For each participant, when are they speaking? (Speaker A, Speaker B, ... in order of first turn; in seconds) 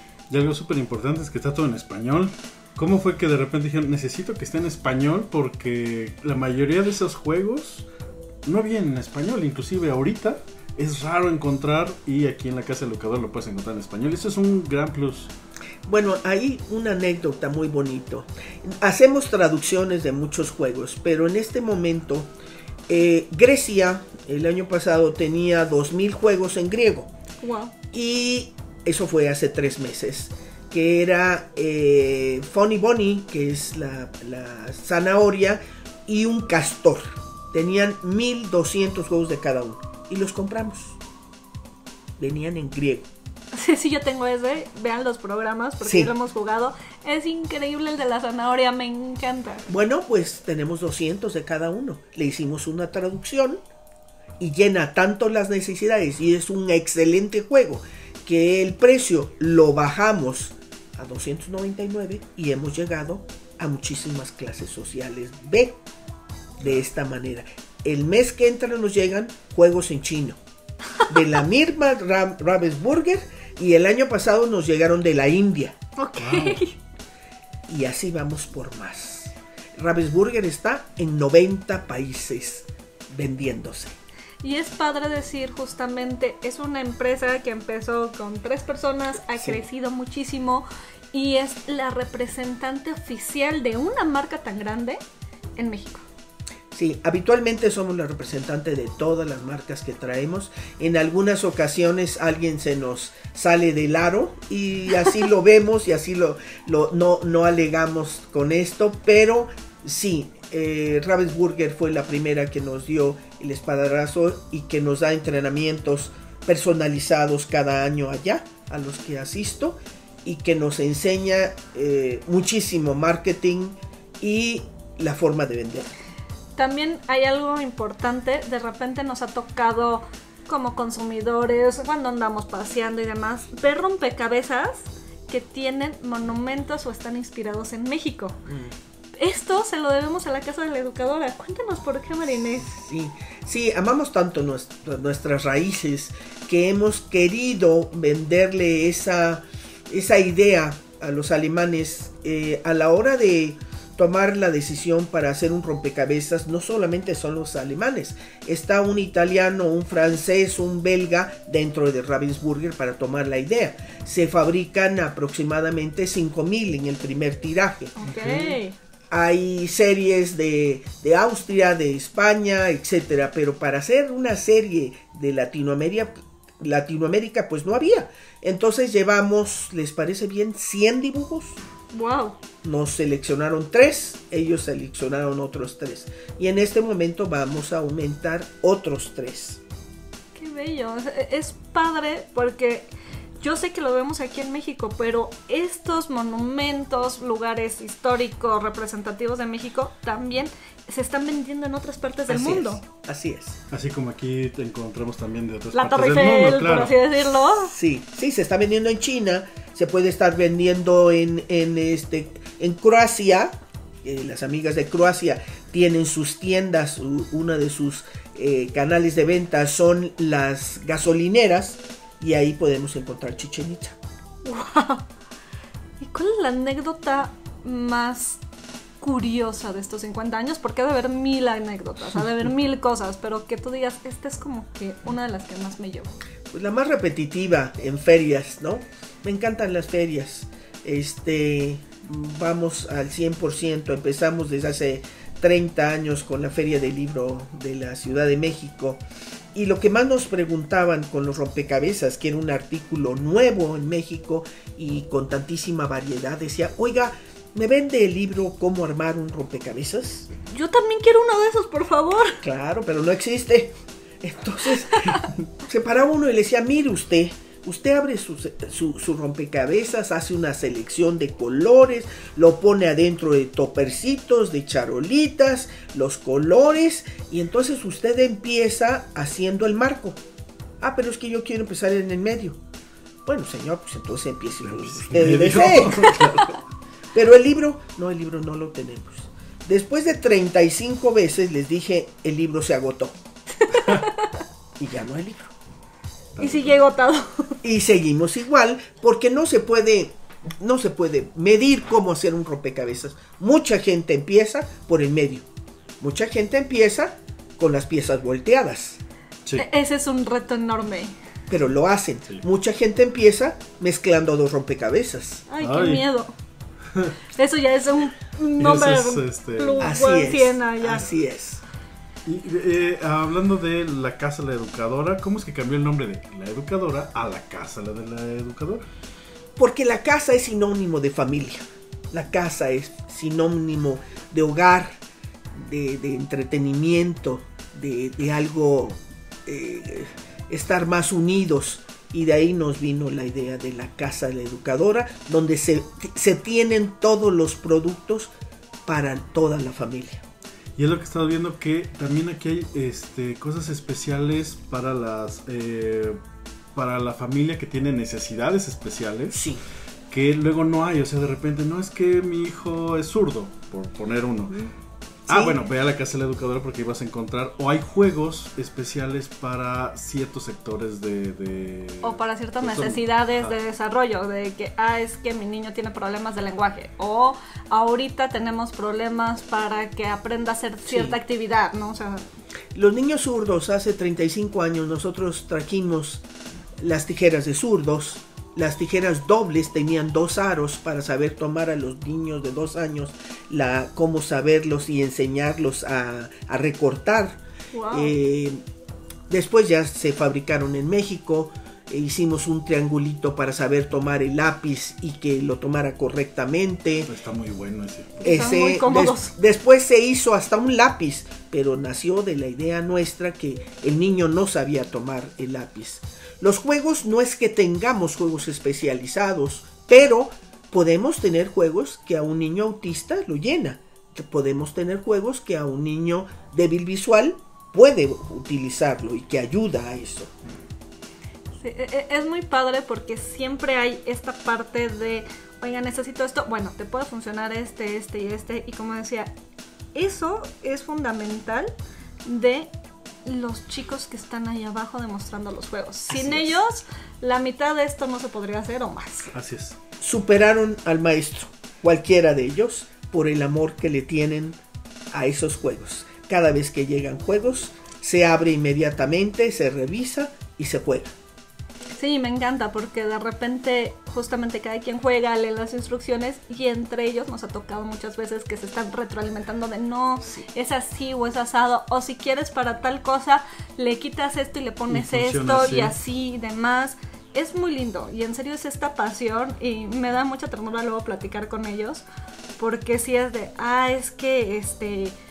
Speaker A: 0.3-7.9, 8.5-15.3, 76.2-76.6, 168.1-168.5, 203.7-207.0, 284.6-286.6, 293.7-294.1, 296.4-296.8, 315.6-316.1, 318.6-319.9, 322.2-328.8, 350.8-356.2, 356.8-359.5, 360.1-364.6, 365.3-373.6, 407.1-408.4, 449.3-449.8, 474.9-475.9
Speaker B: 15.9-22.3, 22.9-27.1, 27.9-41.0, 42.2-43.1, 45.8-46.1, 49.7-53.6, 54.4-65.8, 66.6-70.4, 71.1-75.8, 77.7-84.0, 96.7-126.0, 138.5-138.8, 142.5-167.9, 169.1-181.6, 182.6-189.6, 202.3-203.6, 207.6-224.0, 236.5-249.0, 249.5-260.3, 262.4-280.2, 280.8-282.6, 283.2-286.4, 287.1-293.2, 294.8-295.5, 297.6-305.5, 306.0-309.0, 311.5-315.5, 319.8-321.6, 329.6-335.0, 335.5-348.3, 348.9-350.2, 359.3-359.6, 365.3-365.6, 380.9-381.2, 382.7-386.2, 386.8-397.4, 397.9-398.6, 399.3-407.1, 408.2-430.3, 446.1-446.6, 450.0-454.6, 455.1-461.1
Speaker C: 27.4-27.7, 43.5-49.7, 76.0-76.8, 84.4-95.0, 95.6-96.1, 126.6-138.4, 139.2-142.7, 168.0-168.8, 181.9-182.4, 190.3-192.9, 193.4-202.8, 205.7-207.7, 224.4-225.1, 226.0-228.4, 229.0-236.1, 260.5-262.4, 293.6-294.4, 296.4-297.6, 309.6-311.1, 315.5-316.4, 317.4-321.1, 372.0-382.3, 397.7-398.2, 408.2-409.3, 431.6-439.3, 439.9-441.7, 442.2-442.7, 443.2-449.3, 462.0-482.1, 482.6-485.2